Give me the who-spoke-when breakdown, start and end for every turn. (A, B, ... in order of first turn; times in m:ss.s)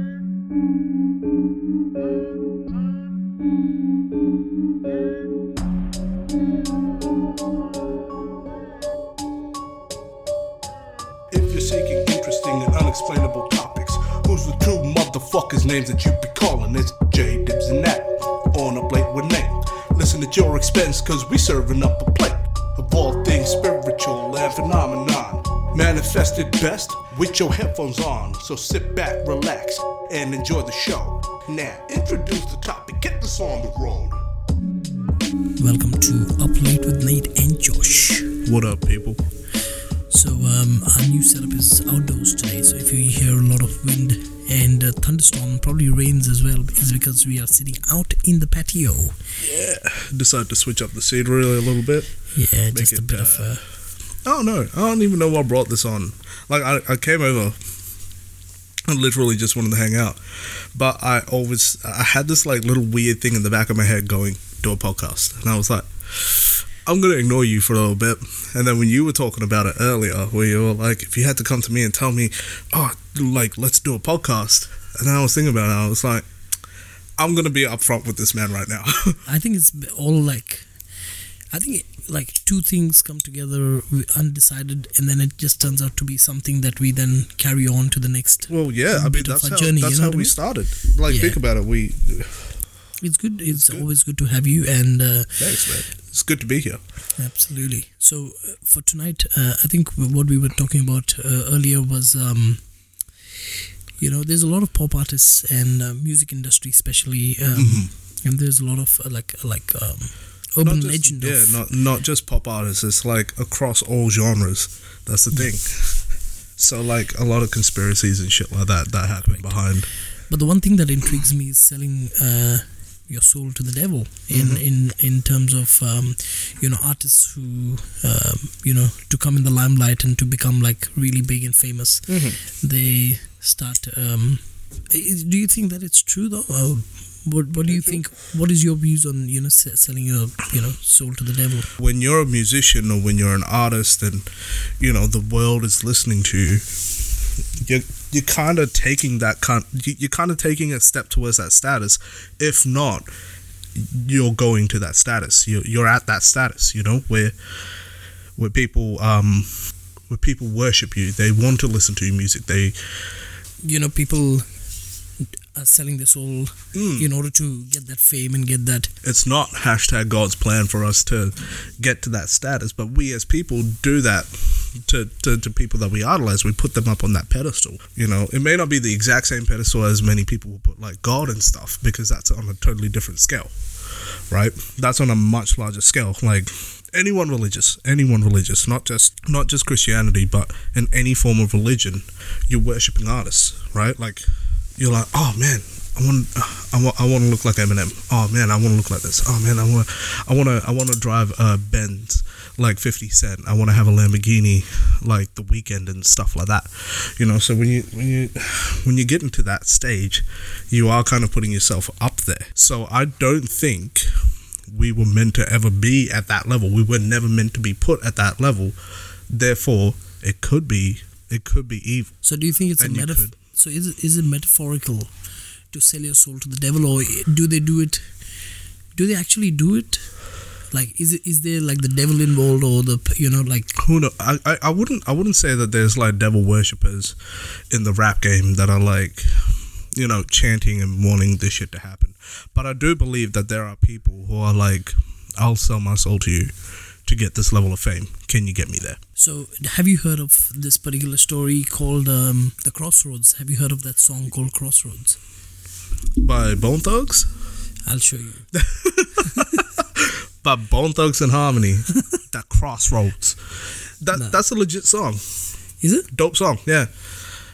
0:11.3-0:34.2 A
0:35.6-0:38.4 B
0:38.4-0:39.2 A
0:40.1-0:49.2 B
0:49.4-0:53.6 A
0:52.3-0:53.6 B
0:54.2-0:57.6 A
0:58.9-1:16.3 A
1:17.2-1:19.2 A
1:19.3-1:20.8 B
1:21.5-1:31.4 B
1:28.5-1:32.6 A
1:33.0-1:35.8 B
1:33.5-1:33.9 A
1:35.4-1:36.8 A
1:37.2-1:42.9 B
1:44.0-1:51.6 B
1:47.6-1:47.9 A
1:50.6-1:59.9 A
1:59.3-2:21.7 B
2:04.3-2:04.6 A
2:12.1-2:12.4 A
2:17.7-2:18.0 A
2:21.8-2:33.1 A
2:33.8-2:37.8 A
2:38.4-2:43.1 A
2:43.6-2:44.5 B
2:45.2-2:48.9 B
2:46.7-2:47.1 A
2:49.0-3:14.3 A
3:14.8-3:38.8 A
3:39.3-3:42.2 A
3:42.2-3:45.1 B
3:42.8-3:43.3 A
3:45.7-3:48.1 B
3:49.0-3:53.8 B
3:53.8-3:57.2 A
3:57.7-4:09.0 A
4:09.2-4:15.2 B
4:16.2-4:17.3 A
4:17.9-4:18.5 B
4:18.5-4:25.4 A
4:19.2-4:19.6 B
4:24.1-4:24.4 B
4:25.8-4:26.1 B
4:26.1-4:27.1 A